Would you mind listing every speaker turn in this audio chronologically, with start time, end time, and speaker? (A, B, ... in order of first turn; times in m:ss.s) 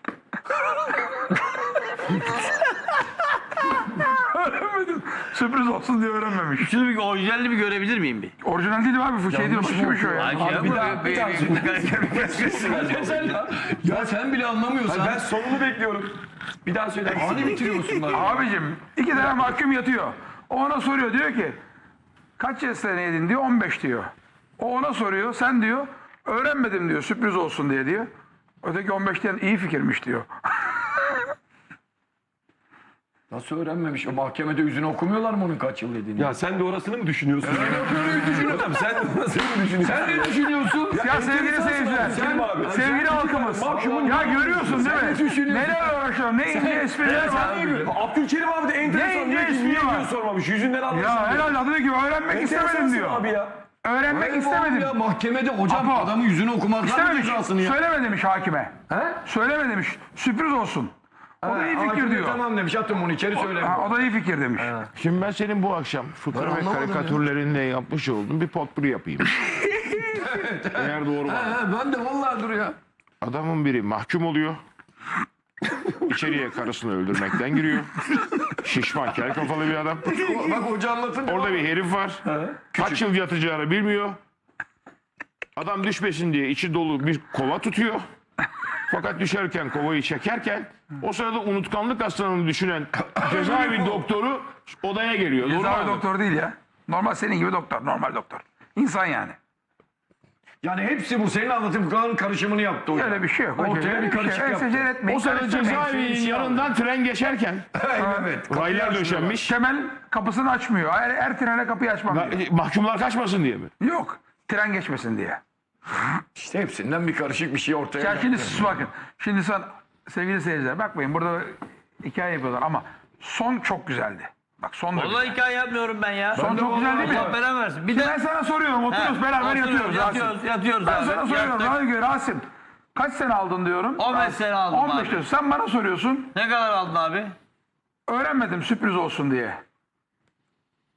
0:03.9-0:06.7 A
0:06.6-0:08.3 B
0:08.4-0:10.8 A
0:09.3-0:11.7 C
0:10.1-0:13.2 B
0:10.5-0:13.3 D
0:12.4-0:15.2 C
0:14.9-0:17.8 D
0:17.0-0:18.5 C
0:18.1-0:21.6 A
0:22.4-0:28.1 A
0:28.6-0:31.2 A
0:33.3-0:36.3 C
0:36.2-0:40.4 D
0:37.4-0:38.7 C
0:39.8-0:41.1 C
0:40.9-0:45.0 D
0:41.0-0:47.7 A
0:42.0-0:45.9 C
0:46.5-0:47.9 C
0:47.0-0:47.3 B
0:47.1-0:51.6 D
0:48.8-0:50.1 A
0:50.9-0:53.3 A
0:52.3-0:53.6 D
0:53.8-0:55.0 A
0:54.1-0:57.8 C
0:55.7-0:56.2 A
0:56.8-1:02.4 A
0:58.9-0:59.2 C
1:01.4-1:04.0 C
1:03.4-1:04.8 A
1:04.6-1:04.9 C
1:05.0-1:09.3 E
1:06.3-1:07.2 C
1:09.9-1:12.8 C
1:10.8-1:11.6 E
1:13.2-1:14.6 E
1:15.9-1:20.2 E
1:20.0-1:21.6 C
1:21.2-1:24.2 E
1:22.5-1:23.0 C
1:25.6-1:28.0 E
1:28.9-1:36.0 E
1:33.2-1:34.0 C
1:35.4-1:39.4 A
1:40.6-1:46.7 C
1:42.9-1:45.8 A
1:45.1-1:47.7 E
1:47.8-1:49.4 C
1:48.0-1:48.4 A
1:48.5-1:49.5 E
1:49.4-1:52.4 A
1:52.1-1:53.7 E
1:53.8-1:55.4 A
1:56.4-1:58.8 C
1:58.0-2:05.4 A
2:04.9-2:08.2 B
2:06.3-2:16.3 A
2:06.4-2:07.4 C
2:08.9-2:11.8 B
2:14.0-2:15.2 B
2:16.3-2:17.3 B
2:18.1-2:19.6 A